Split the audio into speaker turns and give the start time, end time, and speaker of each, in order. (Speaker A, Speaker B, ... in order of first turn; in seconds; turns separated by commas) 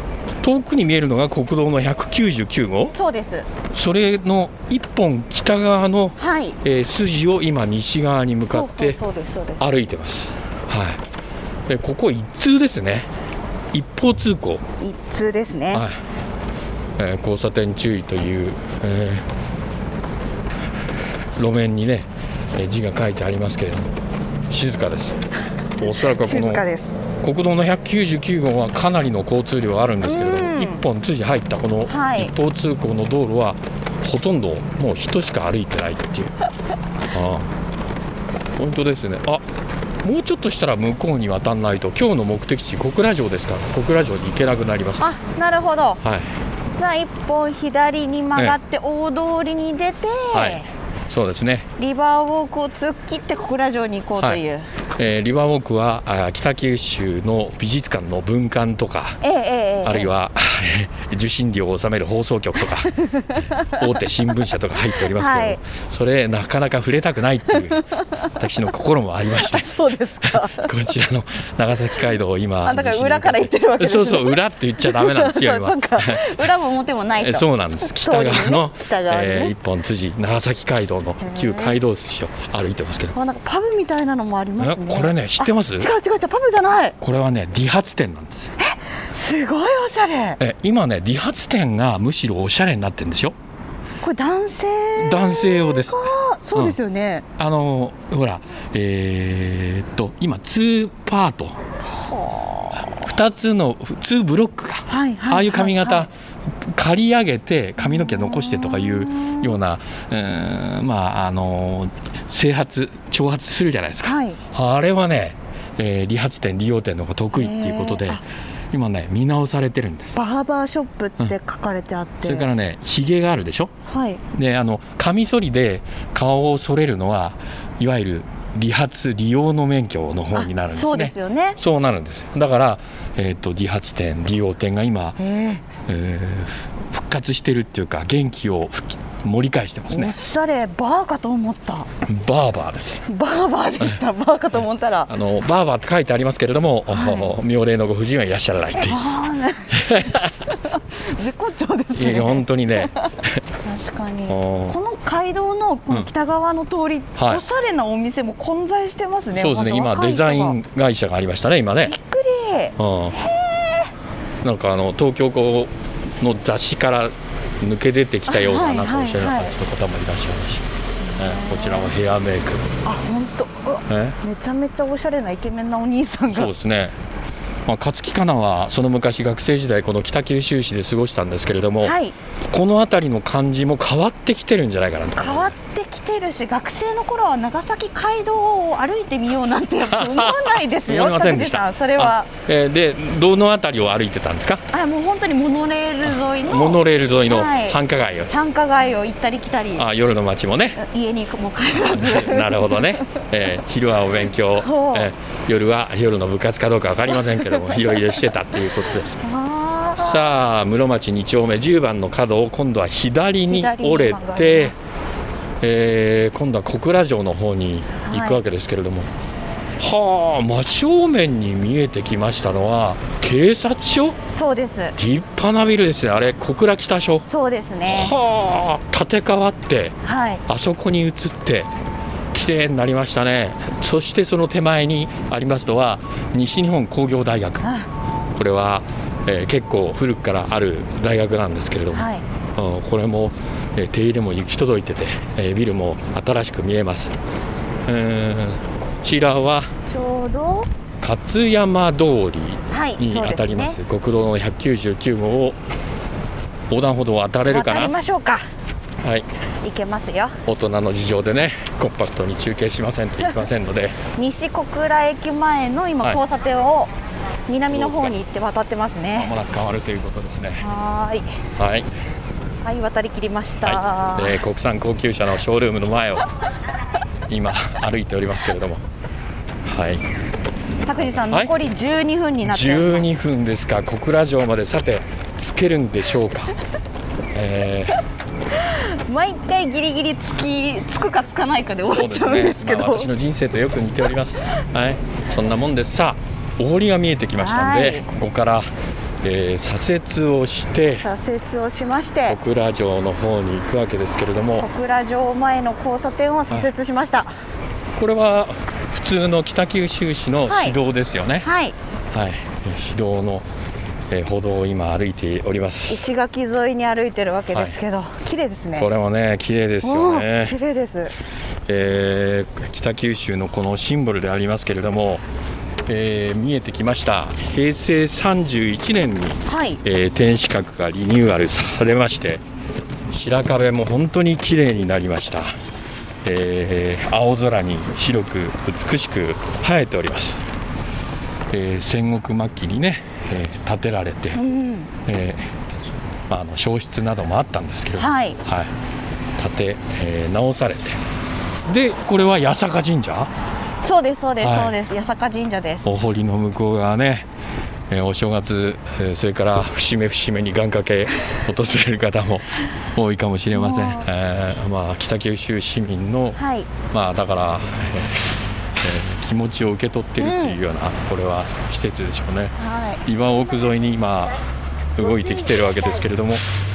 Speaker A: 0.4-2.9, Speaker B: 2.9-3.5, Speaker A: 3.7-9.0, Speaker B: 6.2-6.6, Speaker B: 8.4-9.7, Speaker A: 9.6-11.0, Speaker A: 11.7-13.1, Speaker A: 13.7-14.6, Speaker B: 14.8-15.8, Speaker A: 15.7-16.0, Speaker A: 17.0-19.3, Speaker A: 21.4-23.9, Speaker A: 24.5-25.2, Speaker A: 25.8-26.6, Speaker B: 26.0-26.9, Speaker A: 27.2-36.3, Speaker B: 30.0-30.8, Speaker B: 31.9-32.3, Speaker A: 37.1-37.5, Speaker A: 38.6-39.4, Speaker A: 40.0-45.1, Speaker B: 45.0-46.0, Speaker A: 46.0-46.3, Speaker B: 46.8-50.7, Speaker A: 50.3-51.7, Speaker B: 51.8-54.6, Speaker A: 55.0-59.2, Speaker B: 59.2-60.1, Speaker A: 59.8-62.9, Speaker B: 62.9-63.8, Speaker A: 63.6-67.8, Speaker B: 65.0-65.6, Speaker B: 67.7-68.3, Speaker A: 68.3-76.4, Speaker B: 69.4-70.7, Speaker B: 72.6-79.5, Speaker A: 77.2-83.1, Speaker B: 81.2-81.8, Speaker B: 83.1-87.0, Speaker A: 84.6-85.9, Speaker A: 87.0-88.5, Speaker B: 88.6-90.4, Speaker A: 90.4-93.3, Speaker B: 94.0-97.2, Speaker A: 95.0-96.8, Speaker A: 97.4-101.6, Speaker B: 101.8-103.0, Speaker A: 102.8-120.2, Speaker B: 104.9-106.1, Speaker B: 107.8-109.5, Speaker B: 114.0-114.4, Speaker B: 117.3-118.2, Speaker B: 120.1-122.5, Speaker A: 122.2-123.7, Speaker B: 123.8-124.2, Speaker A: 124.3-135.2, Speaker B: 130.3-131.6, Speaker B: 135.2-135.6, Speaker A: 135.8-140.2, Speaker B: 139.9-141.9, Speaker A: 142.0-143.1, Speaker B: 143.1-145.1, Speaker A: 145.1-149.0, Speaker B: 146.9-147.3, Speaker B: 148.8-153.1, Speaker A: 149.7-150.4, Speaker A: 151.9-153.4, Speaker B: 153.6-160.6, Speaker A: 154.3-154.8, Speaker A: 157.2-157.4, Speaker A: 159.3-161.9, Speaker B: 161.8-163.9, Speaker A: 162.8-163.2, Speaker A: 164.4-170.7, Speaker B: 168.3-169.5, Speaker B: 171.0-171.9, Speaker A: 171.2-172.7, Speaker B: 172.8-176.5, Speaker A: 173.9-174.2, Speaker A: 176.3-176.9, Speaker A: 177.7-182.0, Speaker B: 181.8-182.1, Speaker A: 182.5-185.5, Speaker B: 185.1-192.3, Speaker A: 189.9-194.6, Speaker B: 194.7-199.8, Speaker A: 196.1-198.3, Speaker A: 199.8-200.8, Speaker B: 200.8-203.1, Speaker A: 201.8-209.2, Speaker B: 204.5-205.1, Speaker B: 209.2-210.3, Speaker A: 210.0-214.7, Speaker B: 213.5-214.8, Speaker A: 215.6-219.1, Speaker B: 218.0-218.4, Speaker A: 219.8-224.2, Speaker B: 224.3-225.0, Speaker A: 225.0-227.2, Speaker B: 227.2-228.2, Speaker A: 227.9-230.0, Speaker B: 230.0-230.4, Speaker A: 230.5-231.7, Speaker A: 232.3-237.6, Speaker B: 237.6-237.9, Speaker A: 238.3-247.2, Speaker B: 241.9-242.2, Speaker A: 247.8-249.7, Speaker B: 249.8-250.7, Speaker A: 251.0-255.6, Speaker B: 252.7-253.8, Speaker A: 256.7-257.9, Speaker B: 257.4-258.4, Speaker A: 259.0-259.3, Speaker B: 259.6-260.4, Speaker A: 260.4-264.0, Speaker B: 264.1-266.9, Speaker B: 267.5-269.3, Speaker A: 267.7-268.2, Speaker A: 269.2-270.6, Speaker B: 270.6-271.3, Speaker A: 271.6-271.9, Speaker B: 272.6-274.4, Speaker A: 273.6-276.2, Speaker A: 277.3-278.8, Speaker A: 279.6-280.1, Speaker B: 280.9-283.1, Speaker A: 281.0-281.5, Speaker A: 282.4-286.5, Speaker A: 287.3-288.0, Speaker B: 288.5-293.1, Speaker A: 291.9-298.7, Speaker B: 297.4-298.1, Speaker A: 299.2-301.1, Speaker B: 301.0-302.4, Speaker A: 302.3-304.7, Speaker B: 304.6-307.3, Speaker A: 307.9-311.5, Speaker B: 310.5-310.8, Speaker B: 311.4-311.8, Speaker A: 312.1-313.5, Speaker A: 314.1-316.0, Speaker B: 315.9-318.9, Speaker A: 317.5-317.8, Speaker A: 318.8-320.6, Speaker B: 319.8-321.1, Speaker A: 321.7-325.2, Speaker A: 325.9-332.4, Speaker B: 329.5-329.8, Speaker A: 333.1-335.5, Speaker A: 336.2-340.4, Speaker A: 341.5-344.4, Speaker B: 344.3-344.9, Speaker A: 345.0-345.5, Speaker A: 346.3-348.7, Speaker B: 348.0-348.4, Speaker A: 349.4-351.0, Speaker A: 351.6-353.3, Speaker B: 353.8-355.9, Speaker A: 354.4-354.8, Speaker A: 355.8-357.3, Speaker A: 357.9-374.4, Speaker B: 363.5-364.1, Speaker B: 366.4-366.7, Speaker B: 370.2-370.6, Speaker B: 372.6-373.0, Speaker A: 374.9-376.4